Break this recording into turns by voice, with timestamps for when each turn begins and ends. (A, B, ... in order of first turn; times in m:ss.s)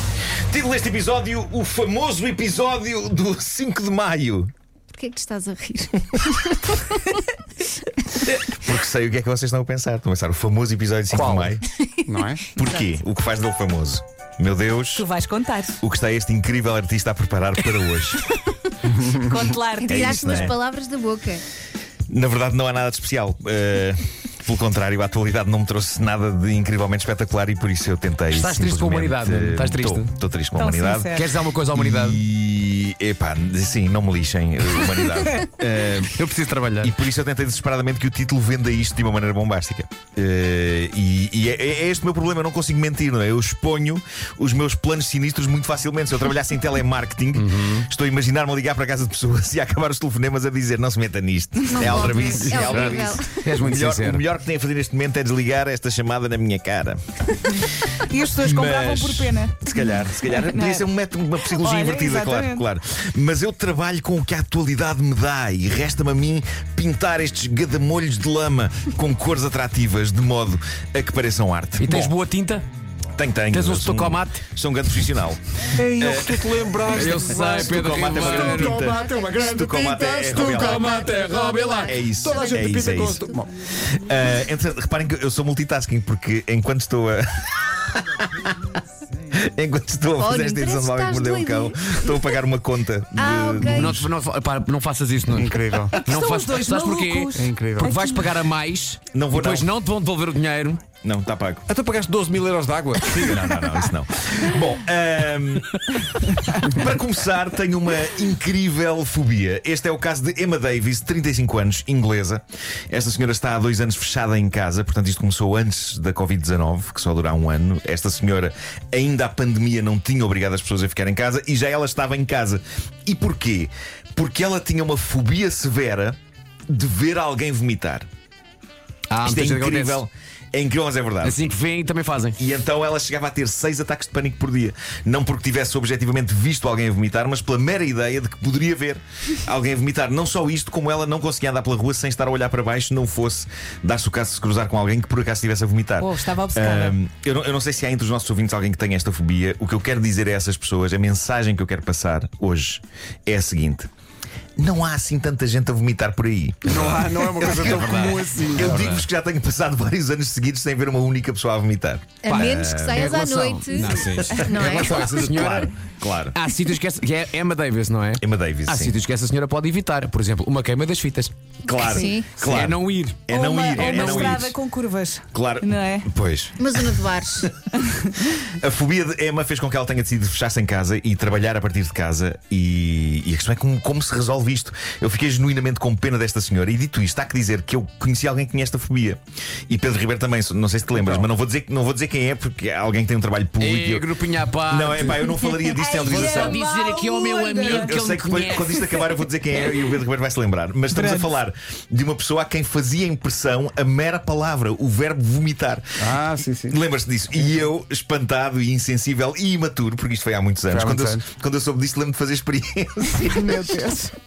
0:00.5-0:04.5 A
0:04.9-0:07.2 B
0:08.4-0:11.7 A
0:11.1-0:12.4 C
0:11.7-0:12.0 B
0:12.6-0:15.1 A
0:15.0-0:15.8 D
0:15.8-0:18.3 A
0:19.1-0:20.5 D
0:19.7-0:21.4 B
0:19.9-0:20.6 A
0:22.1-0:31.2 A
0:28.3-0:30.1 E
0:30.6-0:31.2 D
0:31.1-0:32.2 E
0:31.7-0:36.2 A
0:36.1-0:36.9 E
0:36.8-0:57.5 A
0:47.4-0:47.9 E
0:51.7-0:53.4 B
0:51.8-0:54.2 E
0:58.0-0:59.6 D
0:58.4-1:12.2 A
0:59.7-1:00.0 B
1:00.3-1:00.8 D
1:01.5-1:02.7 D
1:11.8-1:12.6 E
1:13.2-1:16.7 A
1:13.5-1:14.4 E
1:15.8-1:23.5 C
1:16.8-1:18.8 E
1:17.6-1:20.9 A
1:18.5-1:23.4 B
1:20.9-1:21.4 E
1:21.8-1:28.7 A
1:29.4-1:34.1 A
1:30.2-1:32.2 B
1:33.2-1:34.0 B
1:33.6-1:40.8 E
1:35.3-1:36.0 C
1:36.0-1:38.3 D
1:37.4-1:38.0 C
1:39.1-1:39.7 A
1:41.0-1:41.6 A
1:41.7-1:43.7 C
1:43.1-1:45.8 A
1:46.6-2:06.2 A
2:06.7-2:08.1 A
2:09.1-2:10.0 E
2:09.2-2:11.4 A
2:11.2-2:12.4 E
2:12.4-2:33.9 A
2:26.0-2:27.0 D
2:34.6-2:43.2 A
2:36.7-2:39.0 C
2:37.6-2:39.0 E
2:42.2-2:45.6 B
2:42.3-2:45.7 E
2:43.9-2:46.4 A
2:46.3-2:51.3 E
2:48.2-2:49.0 A
2:51.6-2:54.6 A
2:51.7-2:52.3 B
2:52.4-2:54.3 E
2:53.3-2:56.1 D
2:55.3-2:57.0 A
2:56.6-2:57.5 B
2:57.8-2:58.1 D
2:58.4-3:14.1 A
3:11.0-3:11.3 E
3:13.6-3:15.2 E
3:14.7-3:16.6 A
3:15.1-3:17.8 B
3:15.8-3:19.1 E
3:16.2-3:16.5 D
3:17.5-3:17.9 D
3:17.6-3:25.8 A
3:20.9-3:21.3 D
3:26.0-3:26.8 C
3:26.7-3:33.8 A
3:30.7-3:31.2 C
3:33.2-3:34.2 D